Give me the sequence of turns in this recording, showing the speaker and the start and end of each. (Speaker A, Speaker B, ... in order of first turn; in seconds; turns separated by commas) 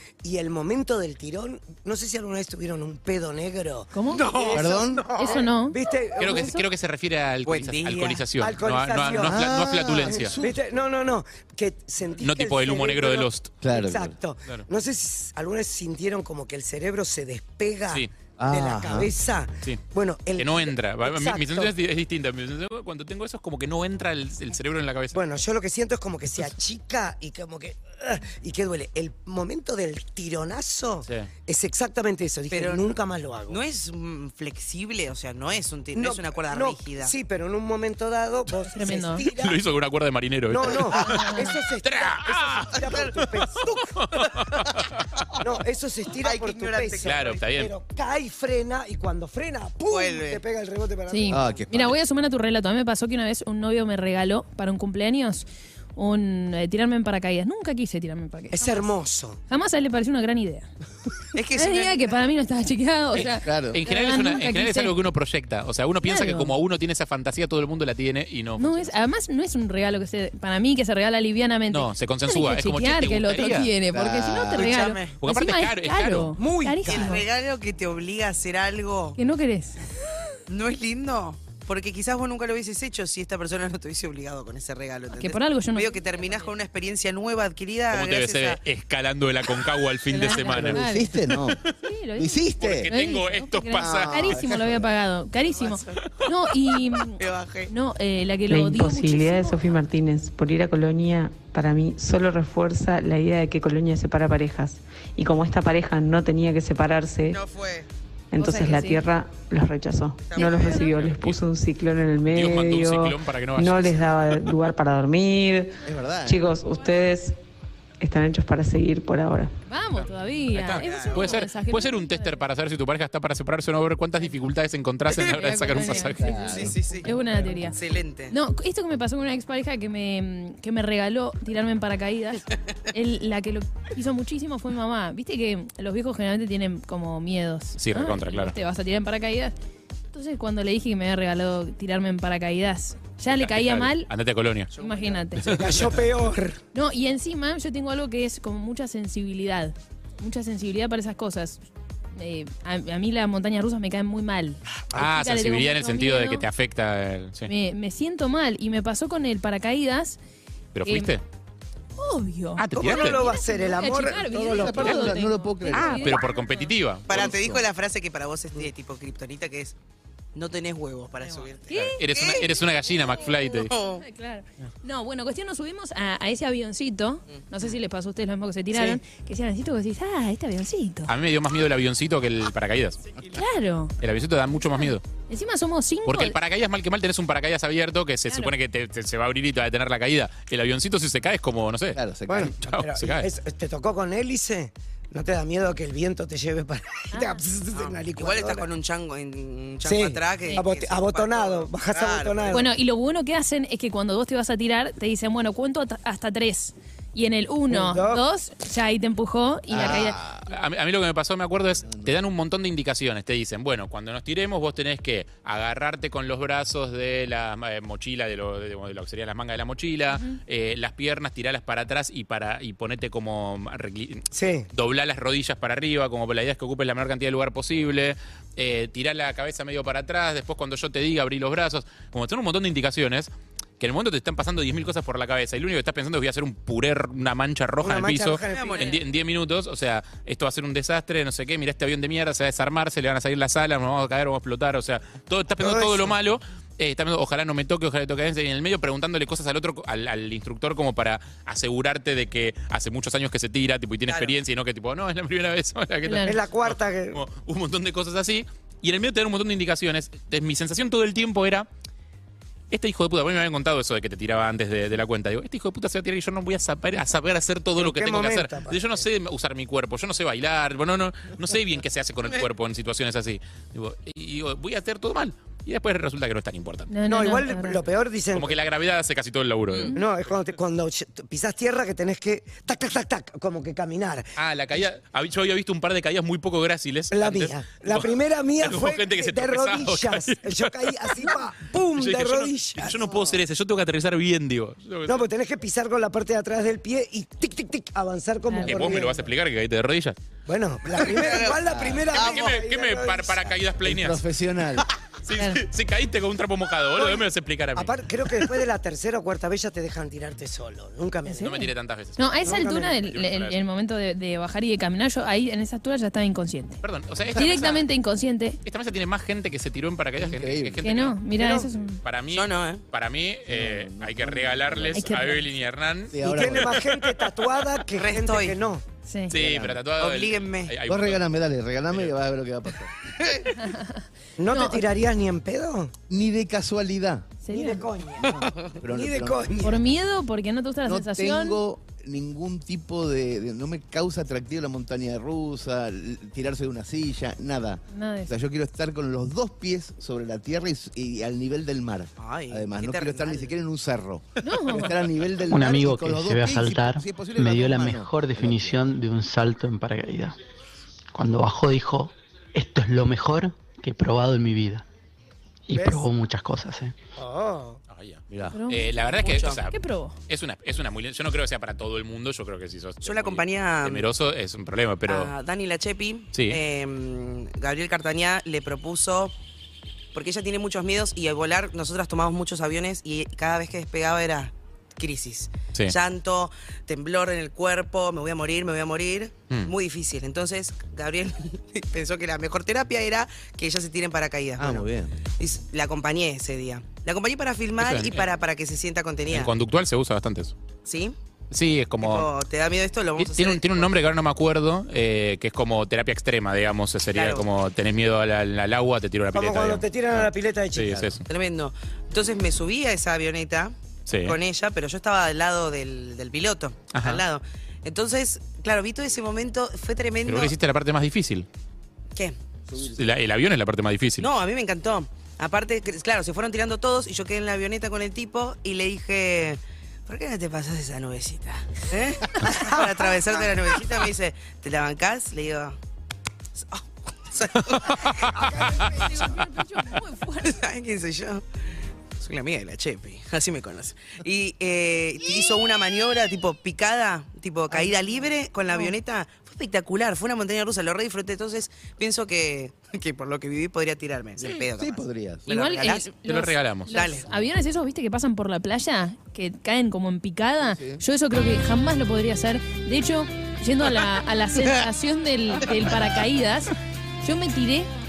Speaker A: 0.2-6.6, Speaker B: 3.9-4.3, Speaker C: 4.2-4.7, Speaker D: 4.5-5.1, Speaker B: 5.1-6.6, Speaker E: 6.2-10.3, Speaker C: 7.4-8.2, Speaker A: 8.3-9.5, Speaker D: 9.2-10.6, Speaker A: 10.0-21.7, Speaker E: 12.1-13.5, Speaker D: 13.6-14.2, Speaker D: 18.4-19.1, Speaker E: 20.4-25.2, Speaker A: 25.1-33.6, Speaker C: 32.5-32.9, Speaker C: 33.5-37.1, Speaker A: 35.9-39.6, Speaker B: 38.7-39.2, Speaker E: 39.2-45.3, Speaker A: 40.5-44.0, Speaker B: 41.0-41.5, Speaker C: 42.8-43.1, Speaker A: 45.4-51.6, Speaker C: 46.2-47.4, Speaker E: 47.0-47.7, Speaker C: 49.9-50.4, Speaker B: 51.1-59.0, Speaker D: 51.3-52.0, Speaker A: 58.5-59.4, Speaker B: 59.5-60.7, Speaker C: 61.3-62.1, Speaker B: 61.5-65.0, Speaker D: 63.4-63.8, Speaker E: 63.7-68.9, Speaker B: 66.0-66.5, Speaker B: 68.6-77.2, Speaker E: 71.7-73.7, Speaker D: 73.9-74.8, Speaker C: 74.5-75.2, Speaker E: 75.2-76.3, Speaker A: 76.4-77.2, Speaker C: 76.8-79.2, Speaker B: 79.2-79.9, Speaker C: 80.5-88.6, Speaker B: 85.1-86.5, Speaker E: 87.9-90.8, Speaker B: 90.1-99.7, Speaker D: 90.5-91.6, Speaker E: 91.3-91.7, Speaker D: 92.1-92.9, Speaker E: 92.6-94.4, Speaker D: 93.7-94.9, Speaker C: 95.4-96.0, Speaker C: 97.2-97.7, Speaker F: 98.5-107.4, Speaker C: 107.3-107.9, Speaker F: 108.3-117.4, Speaker B: 108.4-109.0, Speaker C: 110.2-110.8, Speaker B: 110.3-110.9, Speaker E: 110.8-111.4, Speaker E: 112.3-114.4, Speaker D: 115.8-116.5, Speaker F: 118.0-119.5, Speaker B: 119.7-122.4, Speaker E: 120.5-126.6, Speaker C: 120.7-121.4, Speaker B: 125.1-139.5, Speaker D: 126.2-127.0, Speaker C: 126.5-128.3, Speaker E: 137.8-138.5, Speaker B: 140.1-144.1, Speaker E: 143.3-144.7, Speaker C: 144.7-145.2, Speaker B: 144.8-145.6, Speaker E: 145.4-146.0, Speaker A: 145.5-146.6, Speaker B: 146.7-151.6, Speaker B: 152.1-156.4, Speaker E: 154.9-157.5, Speaker B: 157.5-160.2, Speaker E: 160.7-161.2, Speaker B: 160.8-161.1, Speaker B: 162.0-166.8, Speaker E: 162.6-163.3, Speaker A: 162.8-165.1, Speaker D: 164.0-166.2, Speaker E: 165.8-167.3, Speaker C: 167.1-169.8, Speaker D: 167.1-167.7, Speaker C: 170.3-172.5, Speaker B: 171.7-172.0, Speaker E: 171.7-173.7, Speaker B: 173.3-181.1, Speaker C: 173.7-174.0, Speaker E: 181.1-183.0, Speaker B: 183.2-183.9, Speaker E: 184.0-185.0, Speaker B: 184.8-186.3, Speaker E: 186.1-192.0, Speaker D: 191.9-192.6, Speaker A: 192.3-198.7, Speaker E: 192.6-193.3, Speaker B: 197.1-197.4, Speaker C: 197.8-202.6, Speaker A: 199.8-202.7, Speaker B: 202.5-210.2, Speaker A: 207.7-208.2, Speaker D: 209.7-210.5, Speaker E: 210.5-261.7, Speaker D: 211.8-212.1, Speaker B: 220.1-220.4, Speaker A: 224.3-224.7, Speaker A: 237.8-238.9, Speaker C: 238.5-239.0, Speaker A: 245.6-246.1, Speaker C: 254.1-254.4, Speaker B: 256.0-256.4, Speaker A: 256.2-257.2, Speaker E: 262.7-276.9, Speaker A: 267.8-269.0, Speaker B: 276.9-277.8, Speaker A: 277.1-278.6, Speaker E: 278.3-279.9, Speaker A: 279.9-284.3, Speaker E: 284.4-291.4, Speaker A: 287.1-293.4, Speaker E: 291.9-295.3, Speaker A: 295.1-299.2, Speaker B: 298.5-299.0, Speaker E: 298.6-300.2, Speaker A: 300.5-303.6, Speaker C: 301.1-301.6, Speaker D: 301.6-302.1, Speaker E: 302.1-304.2, Speaker D: 303.8-304.9, Speaker E: 305.1-308.5, Speaker B: 305.4-305.6, Speaker A: 307.0-311.7, Speaker B: 311.3-316.8, Speaker E: 311.3-313.6, Speaker A: 312.4-313.0, Speaker E: 316.8-317.9, Speaker B: 317.4-318.6, Speaker E: 318.6-326.2, Speaker D: 320.2-320.8, Speaker B: 320.8-322.0, Speaker C: 322.3-322.8, Speaker D: 323.5-325.2, Speaker B: 324.9-325.4, Speaker D: 326.1-327.0, Speaker A: 326.2-328.8, Speaker C: 327.9-328.6, Speaker B: 329.1-329.3, Speaker E: 329.3-331.3, Speaker D: 329.3-329.8, Speaker C: 330.0-330.8, Speaker D: 330.9-332.9, Speaker C: 333.2-333.5, Speaker B: 333.6-334.8, Speaker A: 334.4-335.9, Speaker D: 336.1-337.3, Speaker B: 337.4-337.8, Speaker A: 337.5-339.9, Speaker D: 338.2-339.8, Speaker B: 339.6-341.6, Speaker D: 340.9-358.8, Speaker B: 347.9-348.3, Speaker C: 352.2-353.5, Speaker B: 354.4-354.9, Speaker G: 355.5-360.3, Speaker G: 361.1-364.8, Speaker G: 365.7-366.9, Speaker A: 365.7-366.1, Speaker A: 367.1-367.8, Speaker E: 367.9-375.3, Speaker D: 368.3-368.6, Speaker B: 368.5-370.2, Speaker C: 369.2-369.6, Speaker C: 373.0-374.0, Speaker C: 375.1-379.3, Speaker E: 376.3-376.6, Speaker C: 380.1-399.5, Speaker D: 394.6-395.2, Speaker E: 397.8-398.3, Speaker E: 399.3-400.5, Speaker C: 400.8-401.1, Speaker E: 401.5-402.3, Speaker C: 402.0-403.9, Speaker E: 403.2-411.2, Speaker C: 407.1-407.5, Speaker A: 409.3-411.1, Speaker C: 411.2-420.5, Speaker E: 414.1-414.4, Speaker E: 416.9-417.2, Speaker E: 420.2-421.5, Speaker D: 422.7-423.0, Speaker E: 422.8-424.3, Speaker C: 424.2-435.8, Speaker A: 432.5-433.4, Speaker C: 436.6-438.4, Speaker E: 437.7-439.0, Speaker A: 438.3-439.0, Speaker B: 438.4-440.6, Speaker C: 440.4-441.4, Speaker C: 442.2-456.1, Speaker D: 454.8-455.4, Speaker B: 455.5-467.9, Speaker E: 456.2-456.9, Speaker C: 456.9-457.2, Speaker D: 460.7-461.0